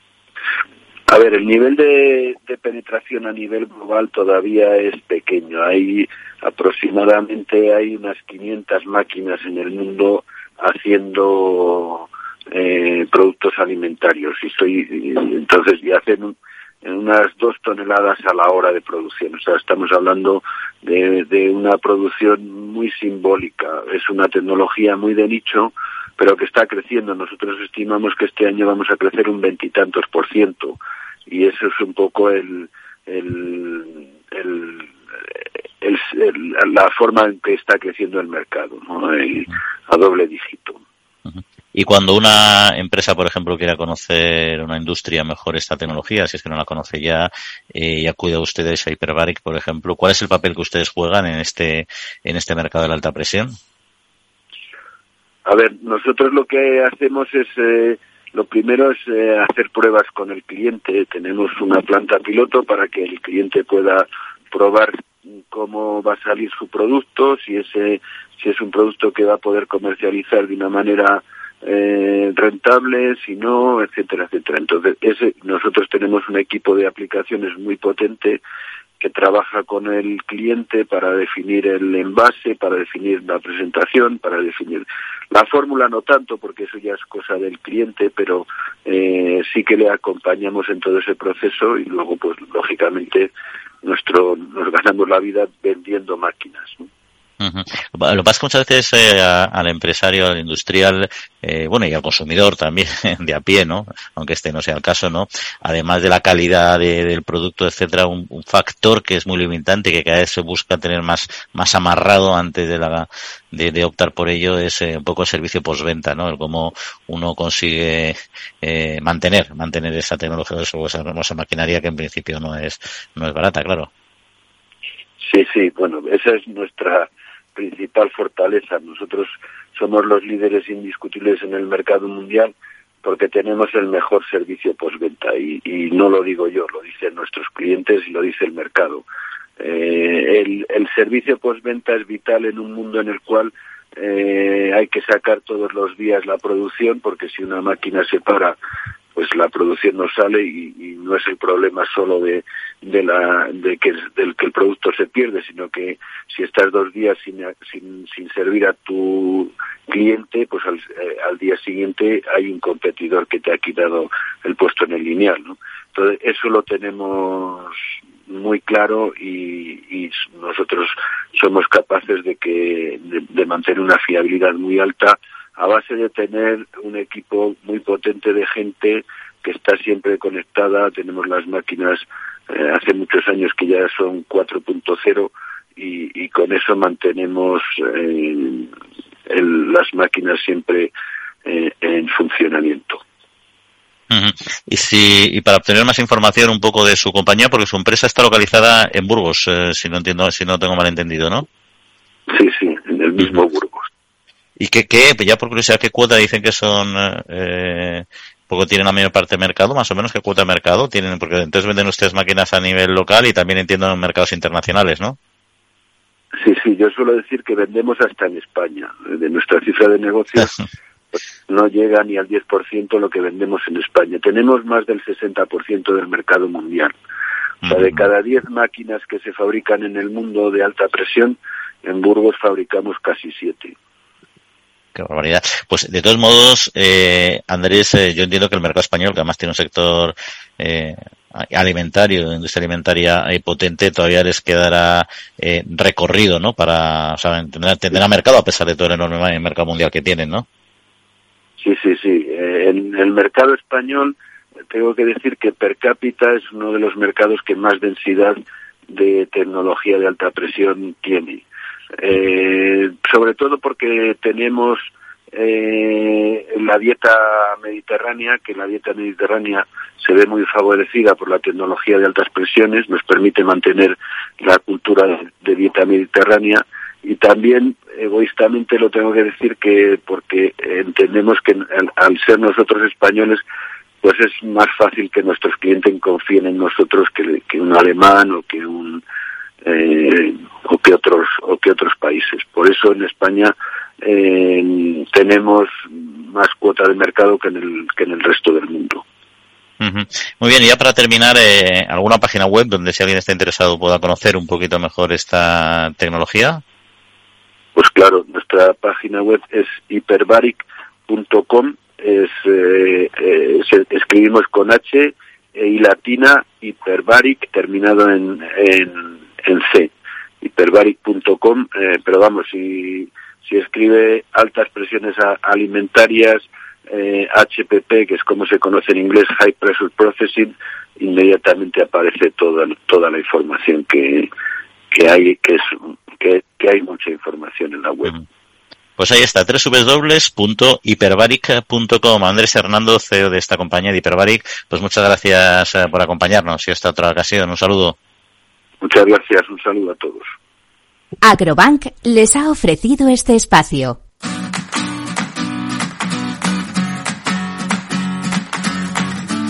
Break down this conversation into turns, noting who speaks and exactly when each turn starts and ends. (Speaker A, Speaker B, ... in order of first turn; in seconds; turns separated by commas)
Speaker A: 1.1-40.8, Speaker B: 41.3-53.6, Speaker A: 55.5-78.4, Speaker A: 79.0-93.3, Speaker A: 93.8-96.8, Speaker B: 97.4-123.9, Speaker A: 125.2-139.0, Speaker A: 139.6-148.6, Speaker A: 149.2-167.7, Speaker A: 168.3-188.7, Speaker A: 189.3-190.9, Speaker A: 191.4-193.0, Speaker B: 194.1-201.5, Speaker A: 202.3-203.9, Speaker B: 204.6-215.2, Speaker A: 216.4-220.6, Speaker A: 221.5-226.9, Speaker B: 227.6-228.0, Speaker A: 227.7-233.8, Speaker B: 234.9-250.5, Speaker A: 251.6-254.2, Speaker A: 254.7-258.4, Speaker A: 258.9-261.4, Speaker A: 262.0-283.4, Speaker A: 284.0-289.0, Speaker A: 289.6-299.0, Speaker B: 299.8-306.6, Speaker A: 307.8-334.3, Speaker A: 334.9-338.1, Speaker B: 339.0-348.0, Speaker A: 348.8-350.3, Speaker C: 351.2-354.0